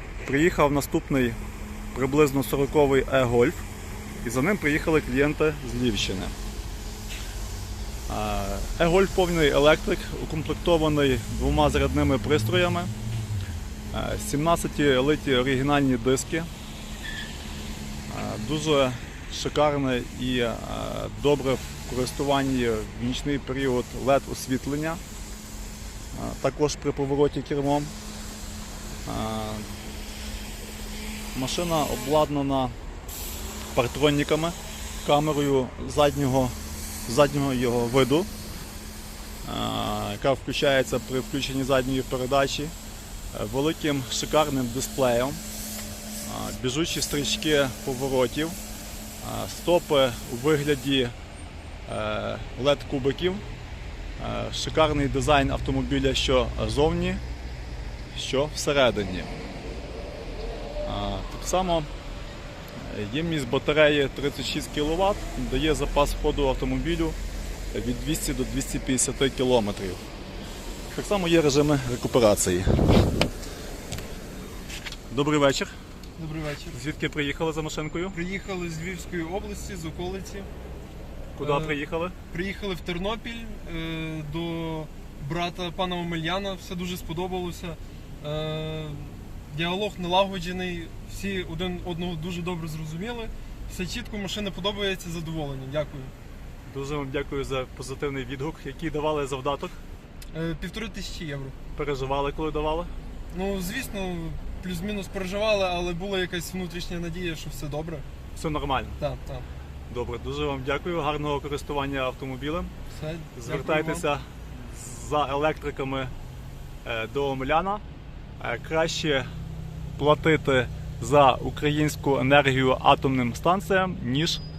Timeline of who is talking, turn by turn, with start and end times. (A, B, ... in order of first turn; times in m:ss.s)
0:00.2-0:01.4 A
0:01.9-0:03.6 A
0:04.2-0:06.4 A
0:08.1-0:12.9 A
0:13.9-0:16.5 A
0:18.1-0:25.0 A
0:26.1-0:27.9 A
0:29.1-0:29.7 A
0:31.3-0:32.8 A
0:33.8-0:36.6 A
0:37.1-0:38.3 A
0:39.4-0:42.7 A
0:43.3-0:45.4 A
0:46.2-0:48.6 A
0:49.2-0:51.2 A
0:51.9-0:53.4 A
0:54.2-0:57.2 A
0:58.1-0:59.4 A
1:00.9-1:01.9 A
1:02.8-1:07.2 A
1:07.7-1:10.0 A
1:10.9-1:13.1 A
1:15.1-1:15.8 A
1:16.2-1:16.8 B
1:16.7-1:18.2 A
1:18.1-1:20.5 B
1:21.4-1:22.2 A
1:21.4-1:21.8 B
1:22.3-1:36.1 B
1:36.7-1:39.8 A
1:40.3-1:41.6 B
1:41.8-1:42.9 A
1:43.3-1:48.1 B
1:48.4-1:49.0 A
1:49.0-1:49.5 B
1:49.9-1:52.7 A
1:52.9-1:54.1 B
1:53.4-1:56.1 A
1:56.8-1:57.8 A
1:58.4-1:59.3 A
2:00.0-2:04.4 A